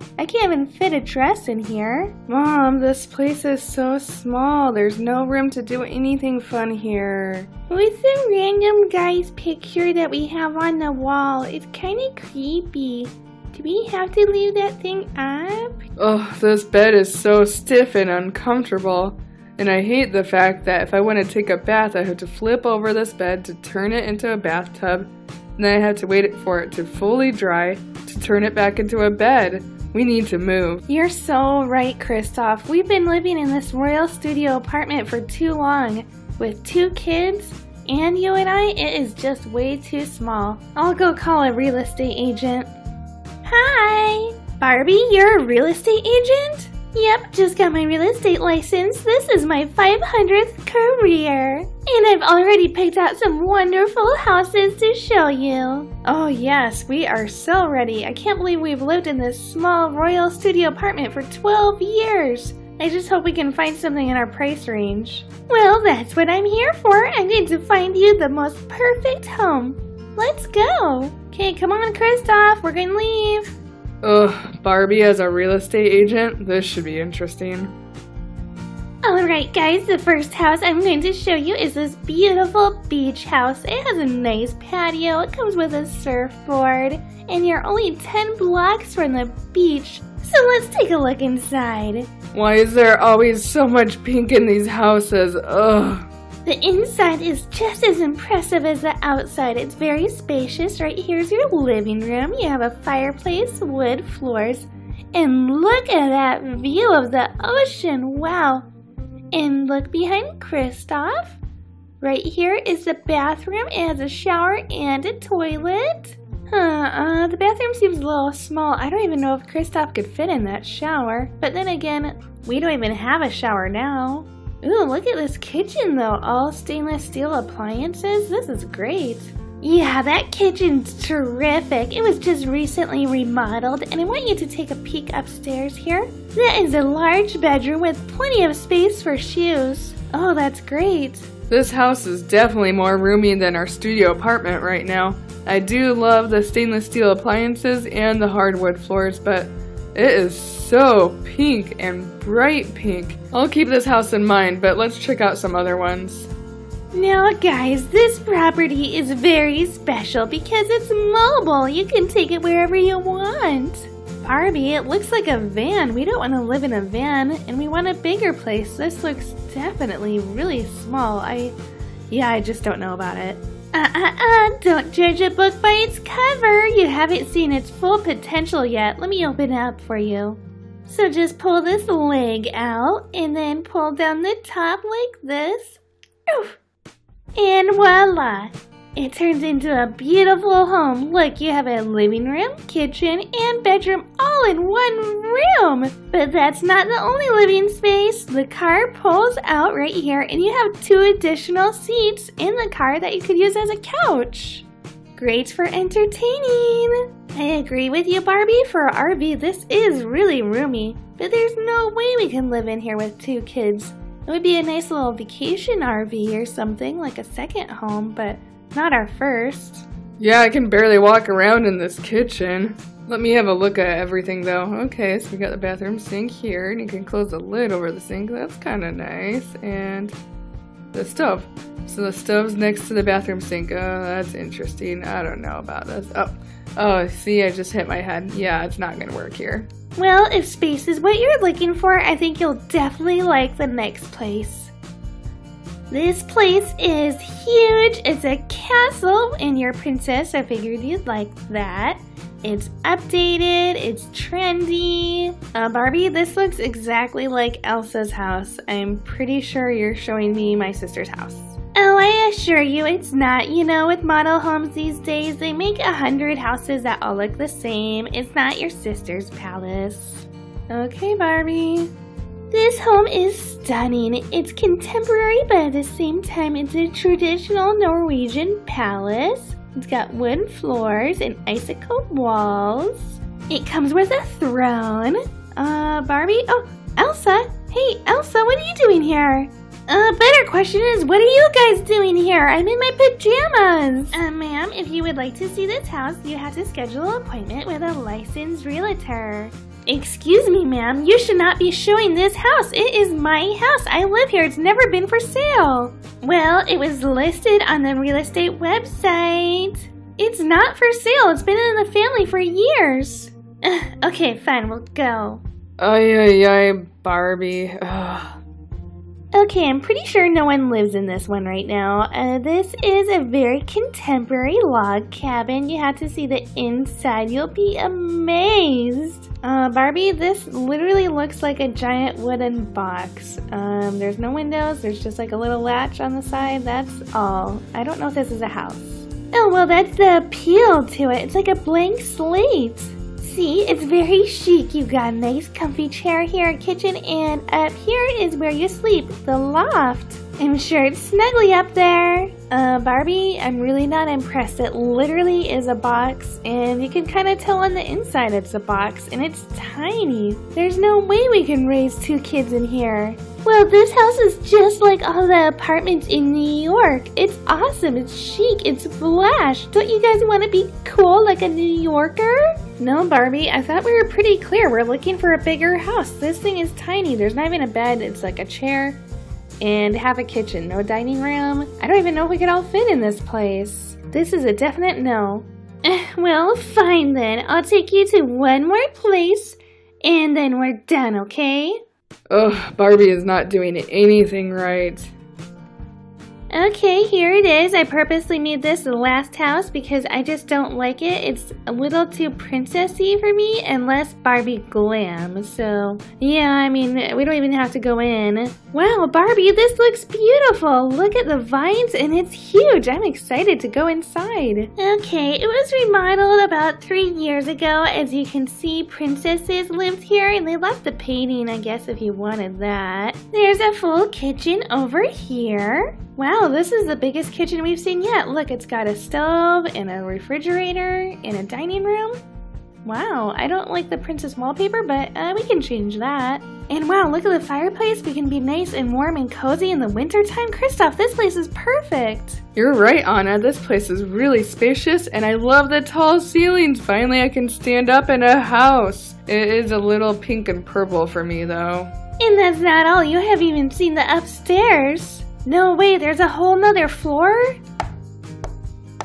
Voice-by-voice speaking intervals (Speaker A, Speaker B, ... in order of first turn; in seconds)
Speaker A: 0.2-5.3, 6.4-15.8, 30.9-42.7, 43.4-73.5, 79.0-92.1, 96.4-108.7, 109.3-111.4, 112.0-141.3, 156.9-171.6, 172.1-186.6, 187.3-204.6, 205.2-219.8, 239.9-244.7, 245.9-271.9, 272.5-315.4, 319.3-379.0, 379.6-391.8, 396.5-432.2, 432.8-442.4, 452.2-457.6
Speaker B: 3.4-3.8, 5.0-7.5, 16.0-30.8, 74.0-77.7, 92.3-96.1, 141.5-156.3, 220.2-230.1, 230.9-239.7, 315.8-318.4, 392.3-395.1, 442.6-451.9